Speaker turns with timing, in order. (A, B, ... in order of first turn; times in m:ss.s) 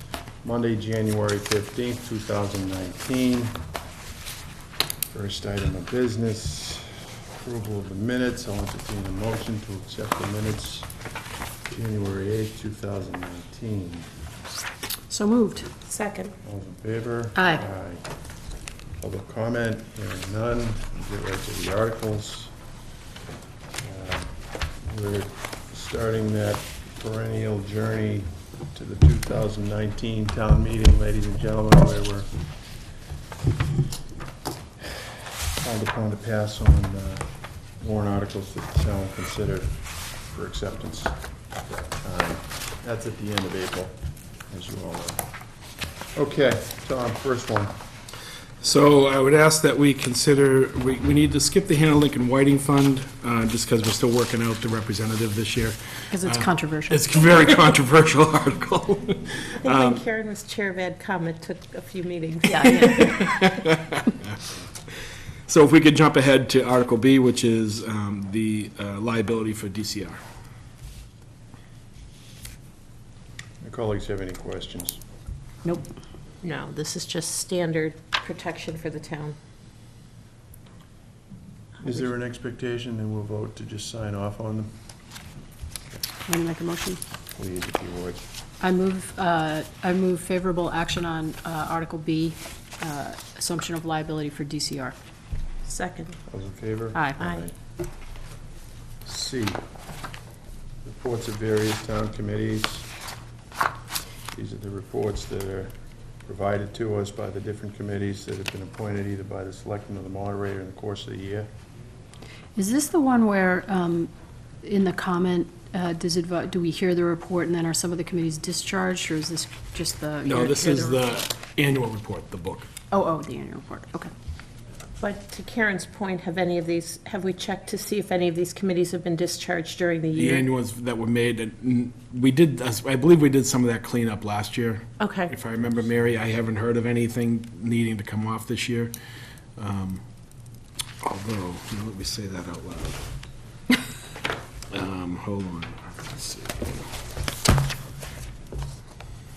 0:00.4-0:03.6 A
0:05.1-0:10.9 A
0:11.7-0:14.1 A
0:15.1-0:15.7 B
0:15.9-0:16.4 C
0:16.4-0:18.0 A
0:17.4-0:17.6 B
0:19.0-0:22.5 A
0:23.8-0:32.3 A
0:35.6-0:37.3 A
0:37.8-0:41.2 A
0:41.7-0:44.0 A
0:44.5-0:45.2 A
0:46.2-0:47.7 A
0:48.6-1:00.0 D
0:56.1-0:57.4 B
0:59.6-1:03.2 C
1:02.5-1:03.3 B
1:02.7-1:04.2 D
1:05.5-1:10.2 D
1:13.6-1:15.0 A
1:15.6-1:16.0 B
1:16.4-1:19.4 C
1:21.8-1:24.7 A
1:26.2-1:27.0 B
1:27.4-1:28.2 A
1:28.6-1:35.0 B
1:35.7-1:36.2 C
1:36.3-1:37.6 A
1:39.0-1:39.6 A
1:40.8-1:42.9 A
1:44.3-1:45.7 A
1:46.2-1:51.5 A
1:52.6-1:54.1 B
1:54.6-2:01.1 B
2:00.2-2:02.7 D
2:02.9-2:04.1 B
2:05.0-2:10.5 C
2:10.2-2:19.0 D
2:15.0-2:15.3 C
2:19.6-2:20.0 D
2:21.0-2:23.0 D
2:24.7-2:26.9 D